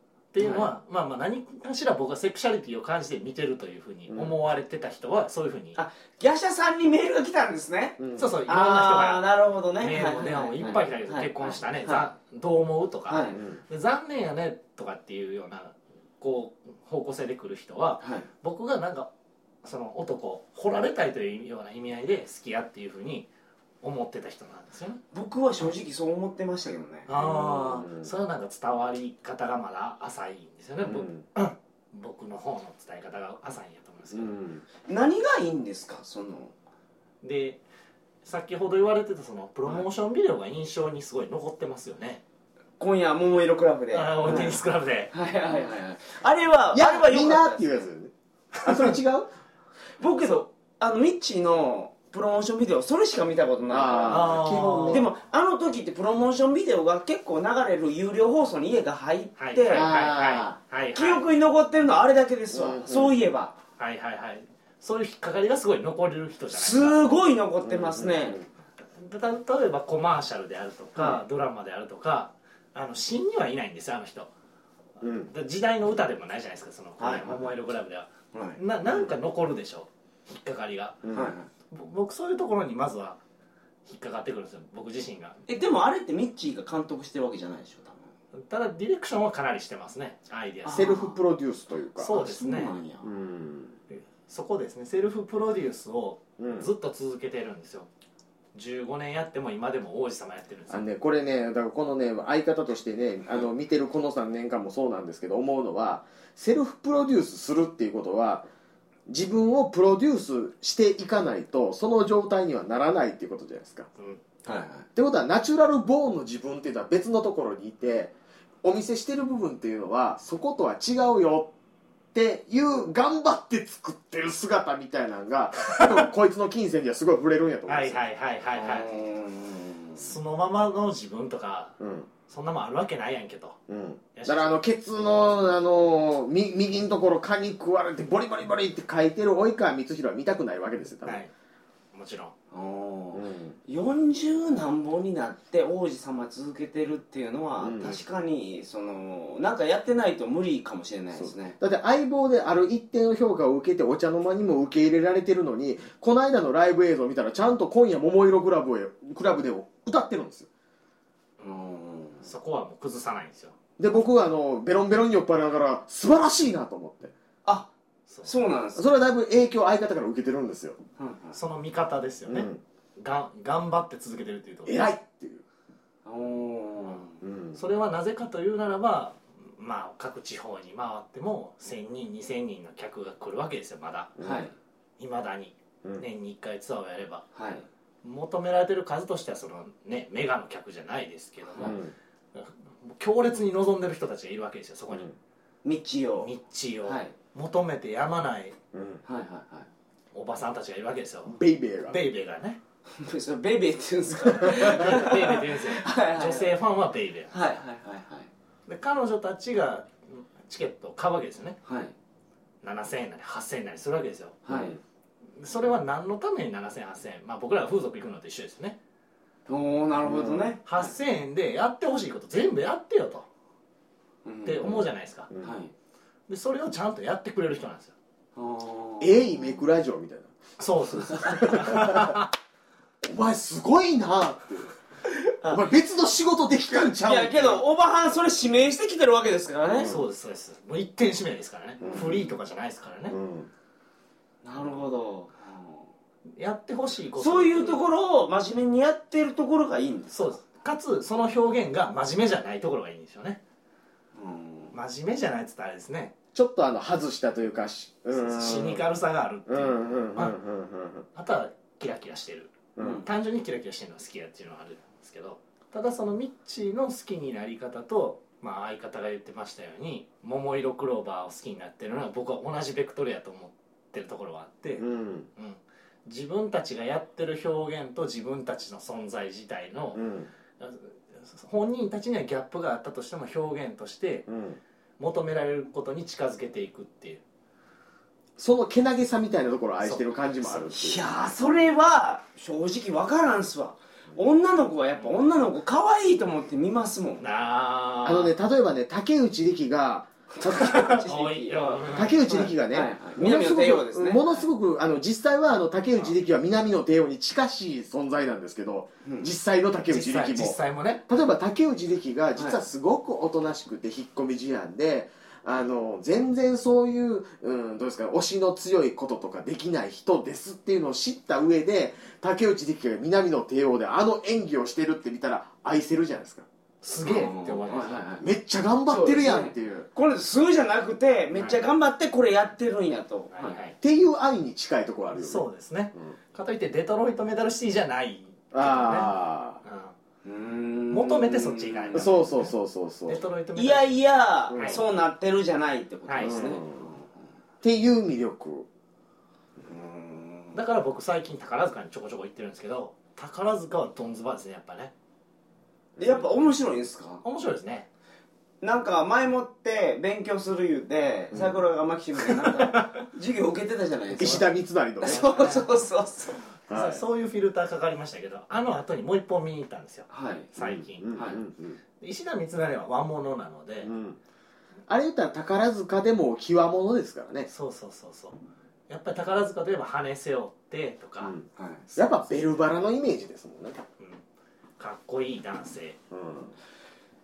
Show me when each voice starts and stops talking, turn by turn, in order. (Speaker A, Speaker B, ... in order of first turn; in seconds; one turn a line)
Speaker A: 0.3-5.8
Speaker B: 0.4-0.7
Speaker C: 4.1-4.3
Speaker B: 5.7-12.1
Speaker C: 8.0-8.3
Speaker A: 8.2-9.3
Speaker A: 9.8-19.1
Speaker B: 13.1-13.4
Speaker C: 13.3-13.6
Speaker B: 18.0-18.3
Speaker A: 19.6-23.3
Speaker A: 23.8-25.0
Speaker B: 25.1-27.1
Speaker A: 27.1-34.3
Speaker C: 27.2-28.1
Speaker C: 30.8-31.2
Speaker C: 34.1-34.6
Speaker B: 34.9-36.5
Speaker A: 37.2-37.6
Speaker A: 38.2-42.2
Speaker B: 42.8-44.6
Speaker A: 43.9-45.1
Speaker B: 45.1-47.9
Speaker C: 46.7-49.3
Speaker B: 50.0-59.9
Speaker C: 53.7-55.1
Speaker A: 54.1-55.1
Speaker A: 59.4-61.2
Speaker C: 59.7-60.5
Speaker B: 60.9-63.5
Speaker C: 62.5-63.1
Speaker A: 63.8-67.0
Speaker B: 66.5-68.4
Speaker C: 67.6-68.4
Speaker A: 69.0-74.3
Speaker C: 75.0-75.3
Speaker A: 75.3-81.0
Speaker B: 77.0-77.4
Speaker B: 78.3-78.6
Speaker C: 81.0-81.3
Speaker B: 81.1-81.5
Speaker A: 81.7-83.2
Speaker A: 83.8-85.4
Speaker B: 85.5-88.0
Speaker A: 88.3-91.0
Speaker B: 90.6-91.2
Speaker C: 90.7-92.1
Speaker A: 92.0-92.7
Speaker B: 92.1-93.1
Speaker C: 93.0-93.8
Speaker A: 93.9-97.9
Speaker C: 96.4-96.7
Speaker A: 98.5-100.8
Speaker C: 100.7-108.5
Speaker C: 109.1-113.9
Speaker B: 114.4-114.9
Speaker C: 114.9-121.5
Speaker C: 122.1-128.0
Speaker A: 127.7-128.9
Speaker B: 128.5-130.1
Speaker A: 129.9-131.8
Speaker C: 131.8-132.1
Speaker A: 132.3-133.6
Speaker C: 133.7-141.2
Speaker A: 134.1-134.6
Speaker A: 141.0-141.3
Speaker A: 141.9-142.3
Speaker B: 142.5-151.6
Speaker C: 143.1-143.6
Speaker C: 147.6-148.0
Speaker C: 151.1-160.5
Speaker B: 161.4-162.3
Speaker A: 162.2-163.5
Speaker C: 163.8-167.1
Speaker B: 167.4-167.7
Speaker A: 168.1-168.3
Speaker B: 168.2-168.8
Speaker C: 168.8-170.8
Speaker B: 171.0-171.4
Speaker A: 171.3-174.9
Speaker C: 172.2-172.6
Speaker C: 174.7-175.4
Speaker B: 176.0-177.2
Speaker C: 177.2-177.6
Speaker A: 177.5-184.2
Speaker C: 184.2-184.5
Speaker B: 184.2-184.5
Speaker A: 185.0-187.3
Speaker B: 187.3-187.7
Speaker A: 188.0-191.8
Speaker B: 191.5-191.8
Speaker C: 191.6-191.9
Speaker A: 192.3-195.1
Speaker B: 195.6-196.3
Speaker A: 196.2-198.6
Speaker B: 196.8-197.1
Speaker C: 198.7-199.0
Speaker B: 199.1-199.7
Speaker A: 200.1-202.6
Speaker C: 201.2-202.0
Speaker B: 203.0-206.5
Speaker A: 204.5-207.3
Speaker B: 207.3-208.3
Speaker A: 208.7-211.6
Speaker B: 211.6-211.9
Speaker A: 212.6-214.4
Speaker B: 214.4-214.8
Speaker C: 214.5-214.7
Speaker A: 215.4-218.8
Speaker B: 219.5-220.9
Speaker C: 220.1-220.5
Speaker A: 220.7-223.2
Speaker B: 224.2-224.7
Speaker A: 224.4-225.3
Speaker C: 224.6-225.5
Speaker B: 225.4-225.7
Speaker A: 226.3-227.9
Speaker B: 228.3-229.5
Speaker C: 229.0-230.3
Speaker A: 230.6-232.3
Speaker C: 231.1-232.2
Speaker C: 233.0-234.7
Speaker B: 235.1-235.7
Speaker C: 235.4-237.6
Speaker B: 236.7-239.9
Speaker C: 239.7-240.0
Speaker A: 239.8-243.2
Speaker B: 241.8-242.1
Speaker C: 241.8-242.3
Speaker C: 243.1-243.5
Speaker B: 244.4-245.8
Speaker A: 246.3-247.8
Speaker B: 247.2-250.3
Speaker A: 250.1-253.4
Speaker B: 254.1-254.7
Speaker A: 254.7-256.1
Speaker C: 256.3-258.9
Speaker A: 258.1-260.4
Speaker C: 259.5-261.1
Speaker A: 261.1-280.0
Speaker C: 262.8-263.0
Speaker B: 262.8-263.1
Speaker C: 274.8-275.3
Speaker C: 279.9-280.3
Speaker A: 280.6-284.3
Speaker C: 284.3-284.6
Speaker A: 285.0-287.2
Speaker C: 288.4-291.0
Speaker A: 289.8-290.7
Speaker B: 290.7-297.2
Speaker A: 297.2-298.3
Speaker C: 298.0-300.8
Speaker B: 300.3-304.5
Speaker A: 300.5-302.3
Speaker C: 301.9-326.4
Speaker B: 309.0-309.3
Speaker A: 309.9-311.0
Speaker A: 326.8-328.1
Speaker B: 327.0-328.2
Speaker C: 328.2-329.9
Speaker B: 328.9-333.6
Speaker A: 333.3-333.7
Speaker C: 333.8-335.4
Speaker A: 335.1-339.1
Speaker C: 338.5-339.6
Speaker A: 339.6-339.9
Speaker B: 340.2-342.2
Speaker A: 340.9-342.4
Speaker C: 341.9-343.2
Speaker A: 343.1-343.9
Speaker B: 343.5-347.1
Speaker C: 344.5-344.8
Speaker A: 344.5-344.8
Speaker A: 346.1-346.6
Speaker C: 346.2-346.9
Speaker C: 347.6-348.7
Speaker B: 349.6-350.6
Speaker A: 350.5-354.9
Speaker B: 356.0-357.2
Speaker A: 357.2-357.9
Speaker B: 358.6-364.5
Speaker A: 362.4-362.9
Speaker C: 364.2-365.3
Speaker B: 365.0-366.4
Speaker A: 365.0-365.7
Speaker C: 366.7-367.0
Speaker A: 366.7-371.3
Speaker B: 370.1-370.5
Speaker C: 370.6-371.8
Speaker B: 371.1-371.4
Speaker A: 372.0-373.9
Speaker C: 373.8-374.2
Speaker C: 374.9-377.5
Speaker A: 377.5-378.4
Speaker A: 378.9-381.4
Speaker B: 381.6-381.8
Speaker A: 381.9-382.2
Speaker C: 381.9-383.8
Speaker A: 384.8-386.0
Speaker C: 386.1-386.5